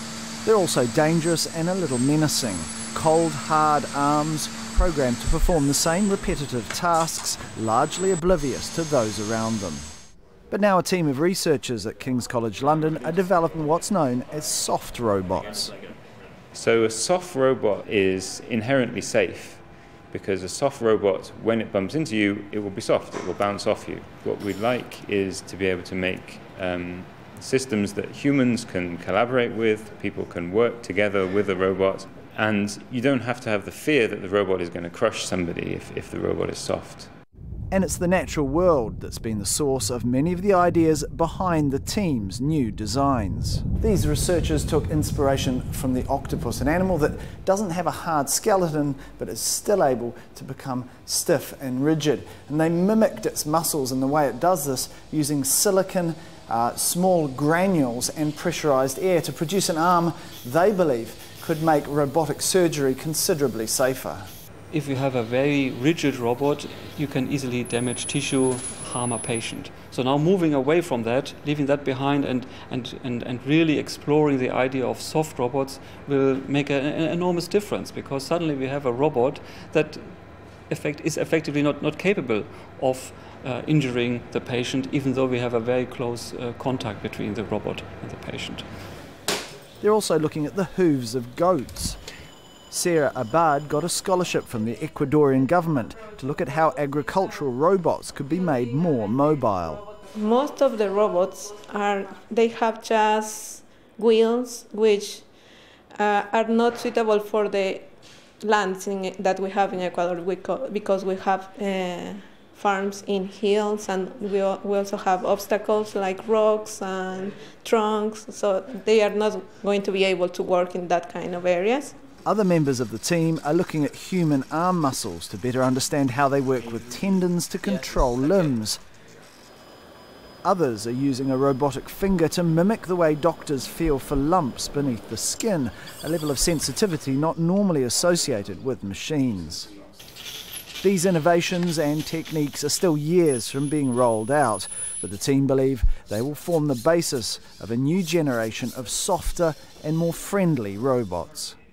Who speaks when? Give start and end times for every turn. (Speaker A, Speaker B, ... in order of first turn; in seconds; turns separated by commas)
Speaker A: 0.4-9.9, Speaker A: 10.5-15.7, Speaker B: 16.5-37.1, Speaker A: 37.7-64.3, Speaker C: 64.7-88.6, Speaker A: 89.8-92.0, Speaker A: 92.7-99.8, Speaker D: 100.1-105.2, Speaker D: 105.9-107.9, Speaker D: 108.4-122.0, Speaker A: 122.2-128.8, Speaker A: 130.4-139.7, Speaker A: 140.8-151.6